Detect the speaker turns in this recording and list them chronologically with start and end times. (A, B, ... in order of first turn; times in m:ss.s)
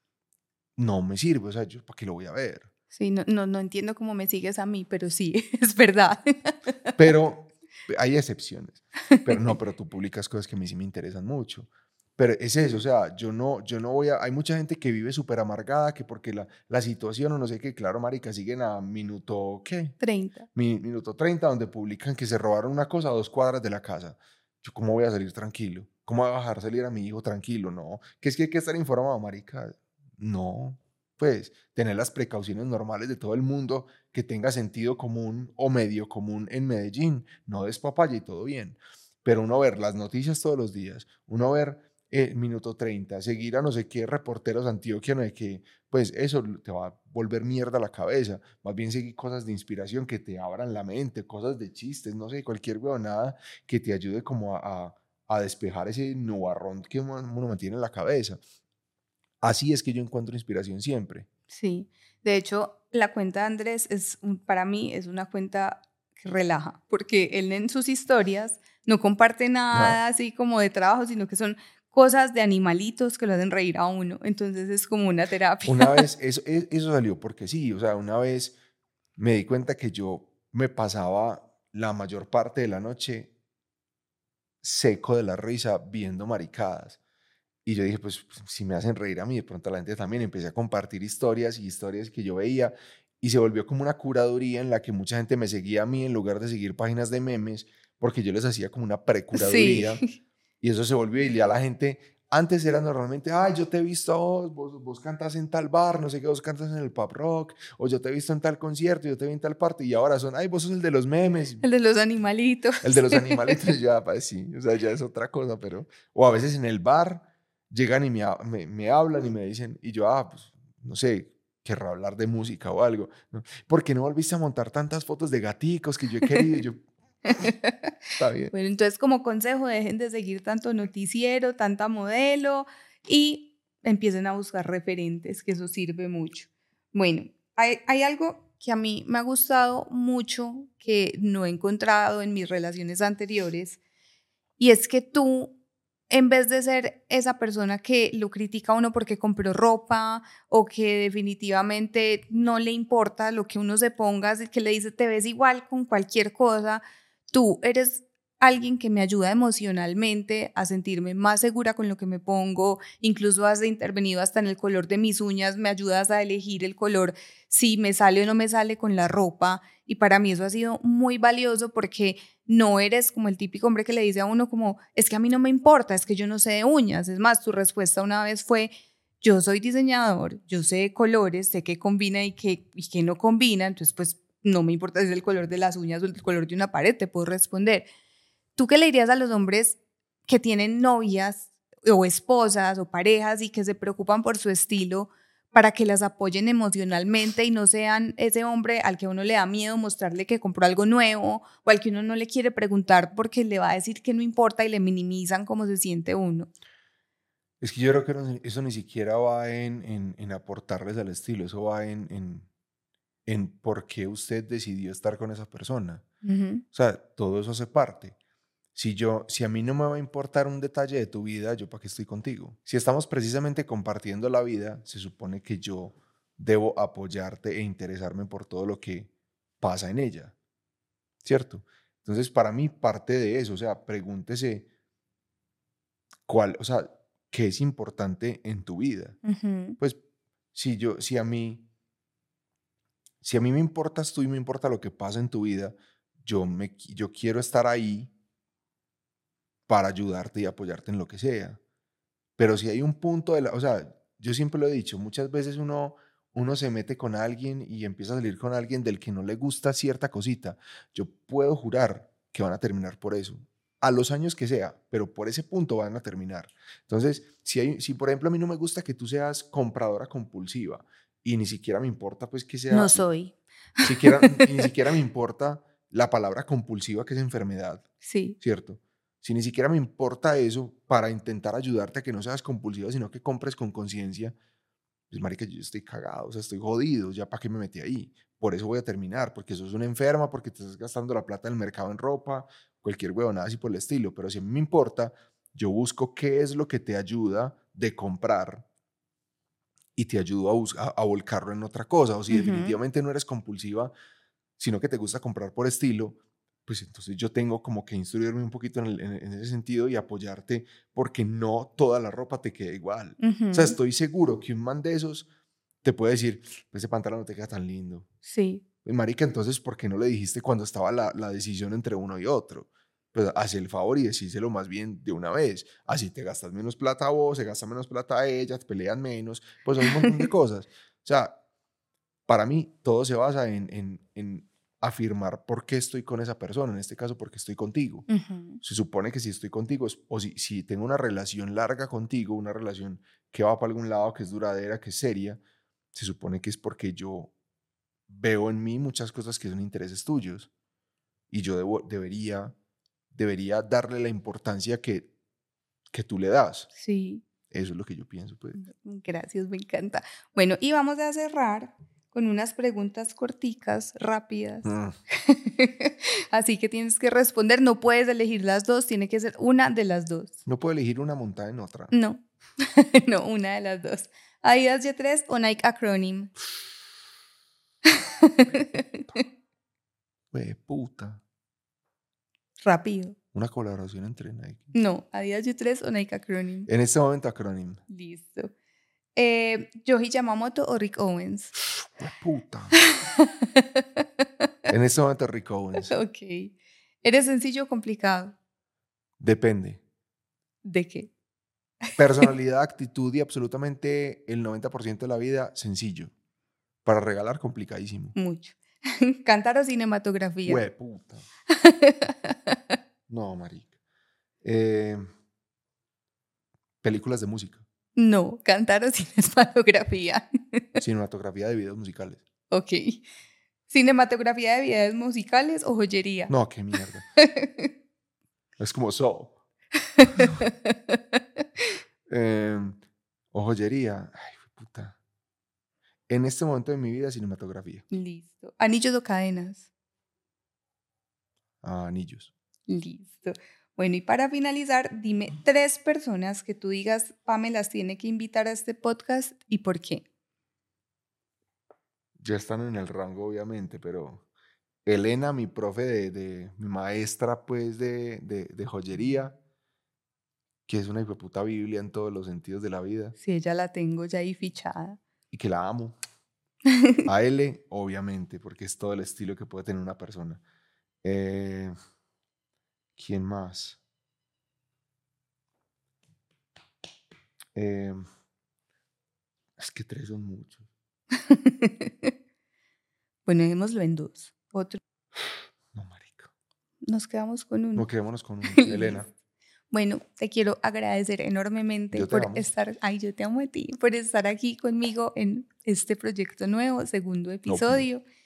0:00.8-0:02.7 A
0:02.9-0:06.7 B
0:07.0-0:20.0 A
0:20.0-0:20.5 B
0:20.5-0:58.4 A
0:59.4-1:01.3 A
1:01.5-1:16.0 B
1:09.7-1:10.0 A
1:15.6-1:18.5 A
1:19.2-1:23.3 A
1:24.6-1:27.0 A
1:27.6-1:40.0 A
1:39.3-1:40.0 B
1:40.6-1:51.6 A
1:51.6-1:53.6 B
1:52.8-2:06.8 A
2:07.3-2:07.9 B
2:08.2-2:08.5 A
2:08.5-2:23.8 B
2:24.6-2:25.5 B
2:26.1-3:07.9 B
3:08.6-3:26.5 B
3:27.6-3:32.5 A
3:33.2-3:36.0 A
3:36.2-3:36.6 B
3:36.7-3:38.1 A
3:38.7-3:49.1 A
3:49.6-3:50.3 A
3:51.2-3:54.7 A
3:56.3-3:59.2 A
3:59.2-3:59.8 B
4:00.5-4:01.6 A
4:03.2-4:08.1 A
4:09.7-4:11.6 A
4:12.4-4:33.0 A
4:32.7-4:34.6 B
4:33.8-4:37.9 A
4:38.0-4:38.4 B
4:38.4-4:44.4 A
4:45.1-4:58.6 A
5:00.0-5:03.9 A
5:02.3-5:02.8 B
5:04.6-5:15.3 A
5:13.2-5:13.8 B
5:15.8-5:18.1 A
5:18.2-5:18.6 B
5:18.8-5:31.4 A
5:29.8-5:30.3 B
5:32.3-5:38.1 A
5:38.1-5:38.6 B
5:38.6-5:45.4 A
5:45.9-5:47.3 A
5:48.1-5:50.5 A
5:51.3-5:52.5 A
5:53.1-5:55.1 A
5:55.9-5:56.7 A
5:56.8-5:57.2 B
5:57.5-5:58.6 A
5:58.5-6:10.4 B
6:04.6-6:05.0 A
6:10.4-6:11.9 A
6:11.9-6:16.3 B
6:17.8-6:19.2 B
6:20.3-6:21.2 A
6:22.6-6:23.2 B
6:23.3-6:24.7 A
6:24.7-6:26.7 B
6:26.7-6:27.8 A
6:27.9-6:28.5 B
6:29.1-6:31.5 B
6:32.0-6:32.8 A
6:32.9-6:34.0 B
6:34.7-6:36.0 A
6:35.8-6:38.4 B
6:39.2-6:39.8 A
6:40.6-6:41.1 B
6:42.0-6:46.1 A
6:46.8-6:48.2 A
6:48.1-6:50.6 B
6:50.4-6:51.2 A
6:51.5-6:52.8 B
6:53.1-6:53.7 A
6:54.4-6:55.0 A
6:56.8-6:57.6 A
6:58.0-7:00.6 B
7:00.8-7:02.2 A
7:02.5-7:03.0 B
7:03.7-7:06.3 B
7:06.3-7:07.0 A
7:07.2-7:07.7 B
7:08.6-7:09.4 A
7:10.0-7:11.0 B
7:12.1-7:12.8 A
7:13.3-7:15.0 A
7:16.1-7:17.8 A
7:17.9-7:19.7 B
7:21.6-7:22.3 A
7:22.7-7:30.0 B
7:32.2-7:34.2 A
7:34.8-7:39.4 A
7:40.7-7:43.1 A
7:43.2-7:45.0 B
7:45.3-7:46.0 A
7:47.0-7:50.4 A
7:51.0-7:51.7 A
7:53.0-7:53.8 A
7:57.5-7:58.0 A
7:59.6-8:00.6 A
8:01.2-8:02.1 B
8:03.2-8:04.8 B
8:05.7-8:06.3 A
8:06.8-8:07.9 B
8:07.8-8:09.1 A
8:08.5-8:09.0 B
8:09.7-8:18.0 B
8:11.9-8:12.4 A
8:17.5-8:17.9 A